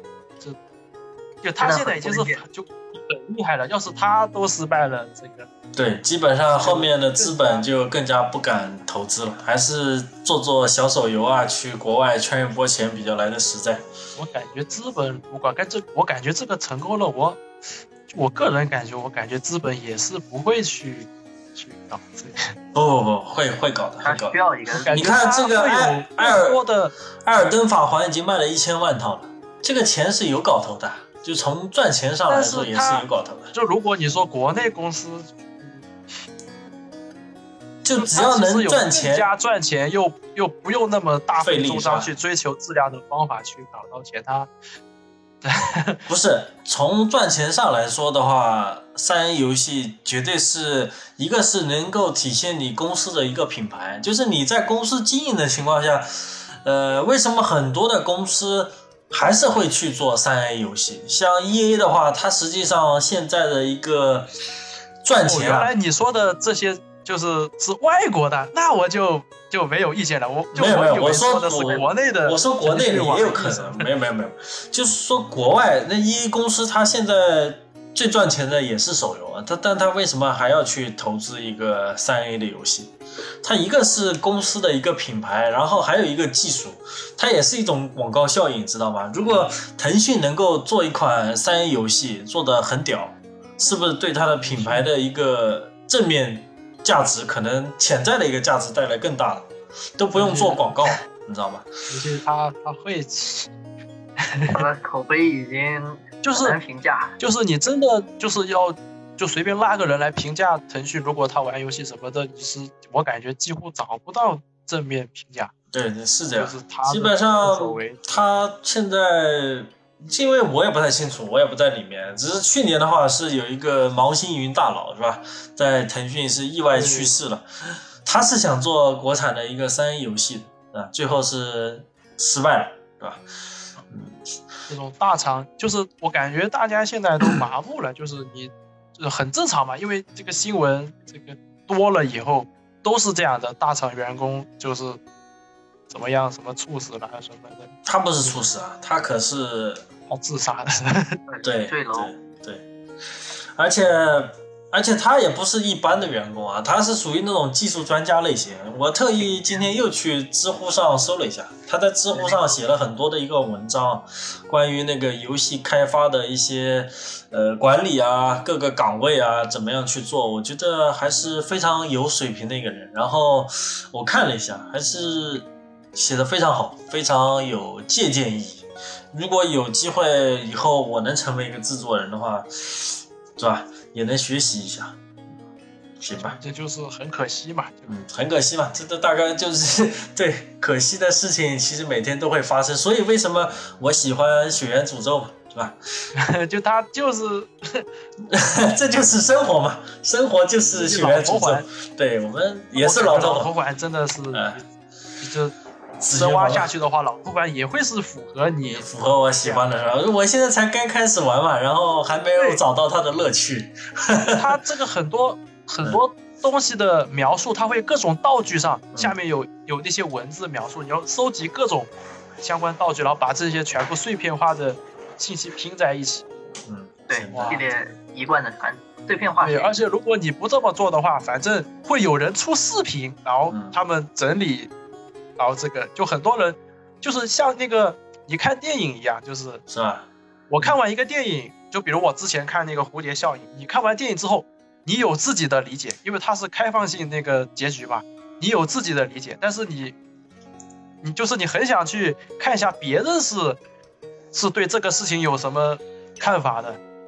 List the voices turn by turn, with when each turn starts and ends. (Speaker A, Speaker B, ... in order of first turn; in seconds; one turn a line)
Speaker A: 1.4-5.5
Speaker B: 1.6-2.4
Speaker C: 5.7-13.8
Speaker A: 6.5-7.7
Speaker A: 14.2-17.4
Speaker A: 18.1-22.5
Speaker C: 22.7-24.4
Speaker B: 24.0-25.0
Speaker A: 24.7-26.9
Speaker C: 24.9-26.6
Speaker C: 27.2-33.5
Speaker A: 32.3-35.9
Speaker C: 37.8-39.3
Speaker A: 38.0-44.5
Speaker C: 41.4-42.1
Speaker A: 45.4-46.0
Speaker C: 46.1-64.3
Speaker C: 65.0-65.7
Speaker A: 65.2-73.9
Speaker C: 70.5-101.7
Speaker A: 94.4-94.9
Speaker A: 100.1-101.0
Speaker A: 101.9-103.5
Speaker A: 104.2-104.7
Speaker B: 104.5-107.2
Speaker A: 106.2-106.6
Speaker A: 107.2-115.5
Speaker C: 115.7-133.2
Speaker A: 116.3-118.2
Speaker A: 126.7-127.2
Speaker C: 133.9-134.2
Speaker A: 134.7-145.0
Speaker A: 145.9-148.4
Speaker C: 147.8-149.8
Speaker A: 150.1-151.2
Speaker B: 151.3-152.1
Speaker C: 151.4-152.6
Speaker C: 153.6-185.0
Speaker A: 162.1-162.5
Speaker C: 186.0-186.4
Speaker A: 186.2-187.9
Speaker C: 187.9-195.8
Speaker A: 196.1-197.8
Speaker C: 198.3-203.5
Speaker A: 200.7-201.7
Speaker A: 202.8-204.6
Speaker C: 204.3-204.6
Speaker A: 205.2-205.5
Speaker C: 206.0-206.7
Speaker A: 206.1-208.9
Speaker C: 208.6-214.5
Speaker A: 212.3-212.6
Speaker A: 214.3-226.2
Speaker C: 226.7-227.6
Speaker B: 227.1-229.8
Speaker A: 227.3-227.6
Speaker A: 229.4-234.7
Speaker C: 233.5-233.8
Speaker A: 235.4-239.6
Speaker C: 239.7-240.1
Speaker A: 240.5-249.9
Speaker A: 251.0-253.6
Speaker A: 254.3-256.8